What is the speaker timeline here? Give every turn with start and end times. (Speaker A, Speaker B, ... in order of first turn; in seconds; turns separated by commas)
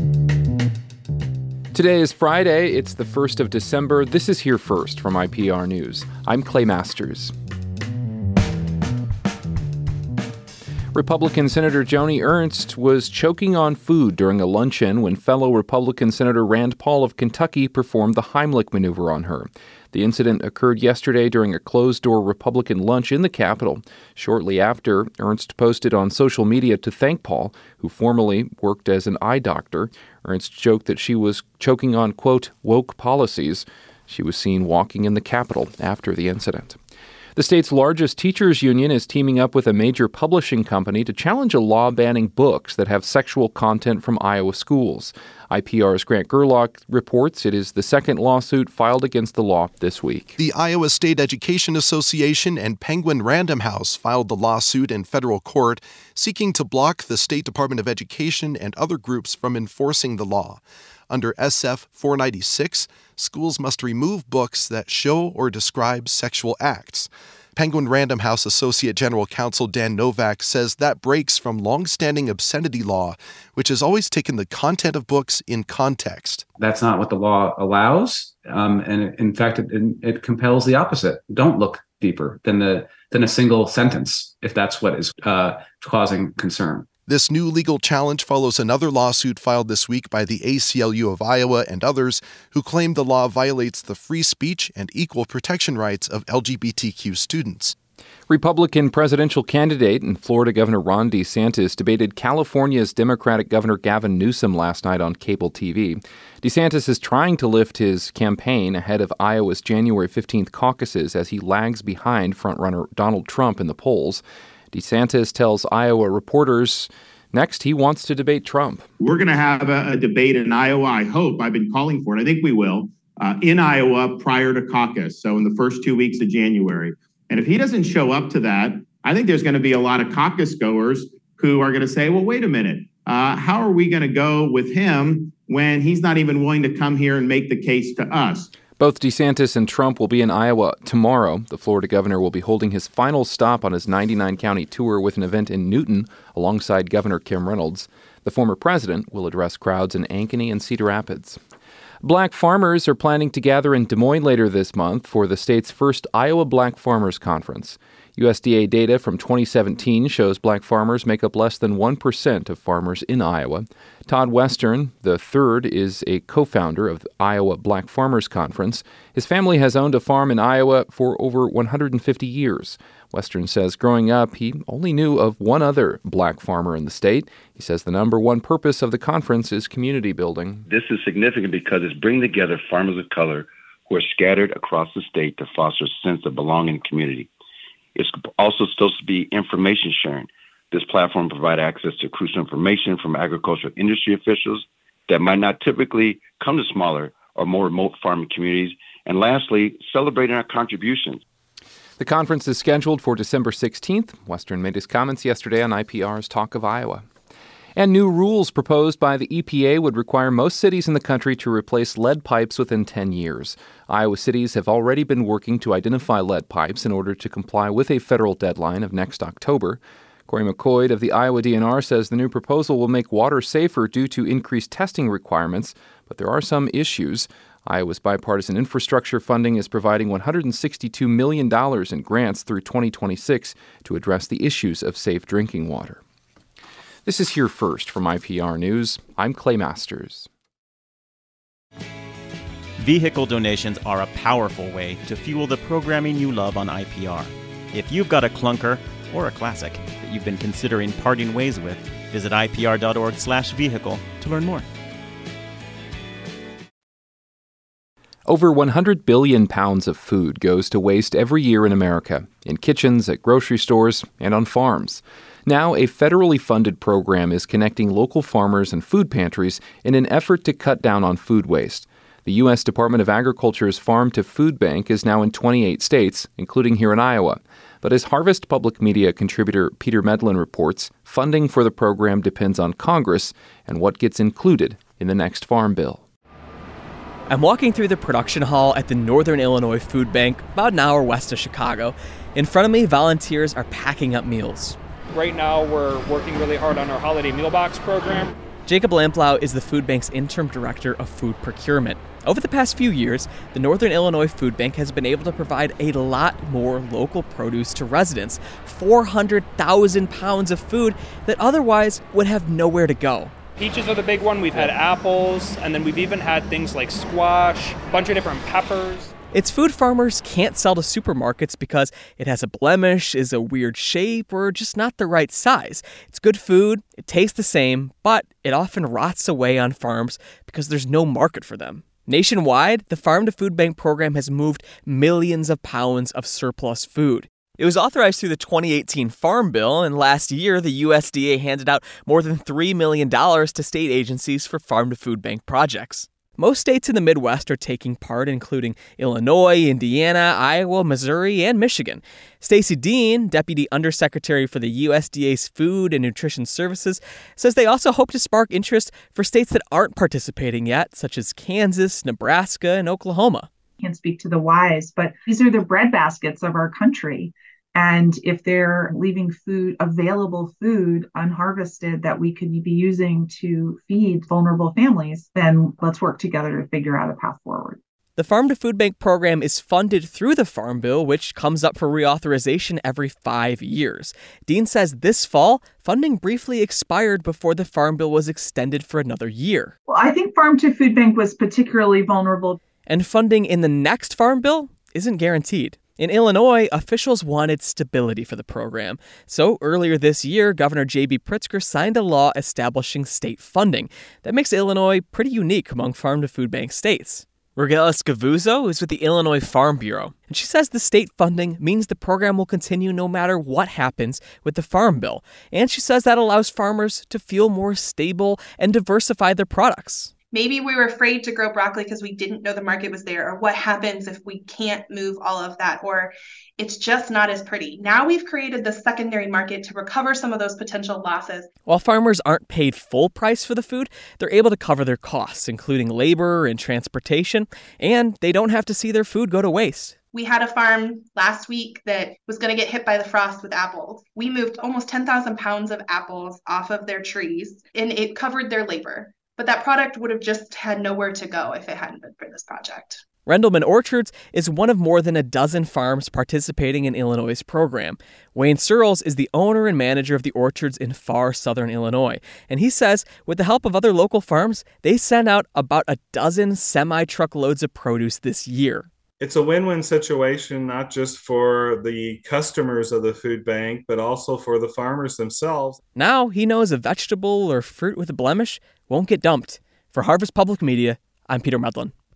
Speaker A: 1.7-7.3, Speaker A: 10.9-36.8, Speaker A: 37.4-50.4, Speaker B: 50.4-76.4, Speaker C: 76.6-86.9, Speaker B: 87.1-97.7, Speaker A: 98.3-118.8, Speaker D: 119.0-138.5, Speaker A: 138.8-151.4, Speaker A: 152.0-180.7, Speaker E: 180.7-187.3, Speaker E: 187.9-201.2, Speaker A: 202.0-207.0, Speaker A: 207.8-236.0, Speaker A: 237.0-240.3, Speaker F: 242.8-254.7, Speaker A: 258.3-286.0, Speaker G: 287.3-294.8, Speaker H: 295.1-298.4, Speaker G: 298.6-313.3, Speaker H: 313.6-319.1, Speaker G: 319.3-363.5, Speaker I: 363.8-377.8, Speaker G: 378.1-389.7, Speaker I: 389.9-392.6, Speaker G: 392.9-420.1, Speaker J: 420.3-431.4, Speaker G: 431.7-439.9, Speaker J: 440.1-453.0, Speaker G: 453.2-468.9, Speaker K: 469.2-475.8, Speaker G: 475.9-481.9